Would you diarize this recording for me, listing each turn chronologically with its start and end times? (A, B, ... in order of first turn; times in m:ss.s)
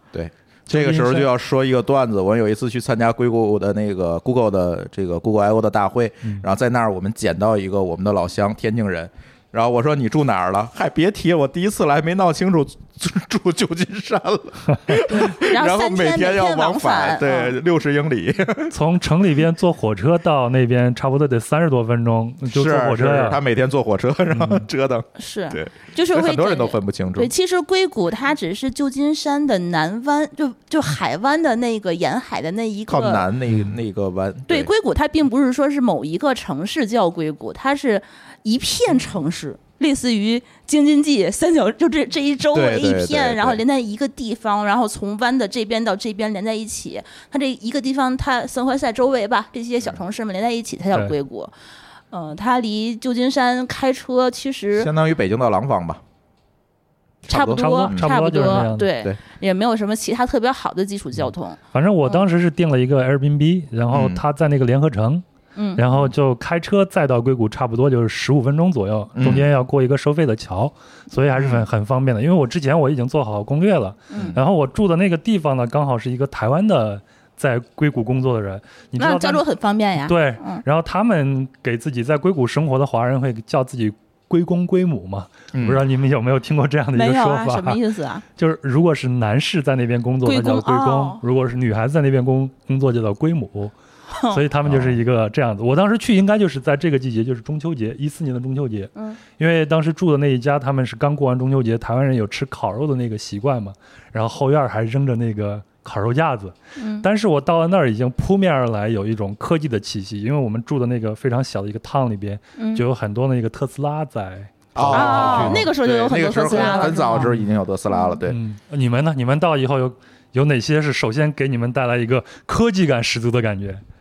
0:00.1-0:18.7 A
0:00.7-0:01.3 B
0:15.1-0:17.6 C
0:18.7-0:23.4 B
0:22.5-0:27.3 A
0:24.3-0:24.7 B
0:25.2-0:33.3 C
0:32.9-0:34.7 A
0:34.5-0:51.5 C
0:42.5-0:43.6 A
0:52.1-0:54.9 C
0:54.8-0:56.0 A
0:57.3-0:58.2 A
0:57.3-1:02.2 C
0:57.5-0:58.9 B
1:01.7-1:05.2 B
1:03.9-1:04.2 A
1:05.6-1:05.8 C
1:05.8-1:19.4 B
1:09.2-1:09.5 A
1:14.1-1:14.4 C
1:14.1-1:14.4 A
1:19.0-1:20.6 C
1:20.0-1:27.8 B
1:25.5-1:25.8 A
1:26.9-1:28.2 C
1:28.4-1:33.7 B
1:30.2-1:31.2 C
1:34.1-1:34.4 C
1:34.3-1:55.7 B
1:34.6-1:35.0 A
1:46.8-1:47.1 C
1:52.6-1:52.9 C
1:54.8-1:58.4 A
1:54.9-1:57.3 C
1:56.5-1:57.5 B
1:57.9-1:58.2 C
1:58.3-2:03.8 B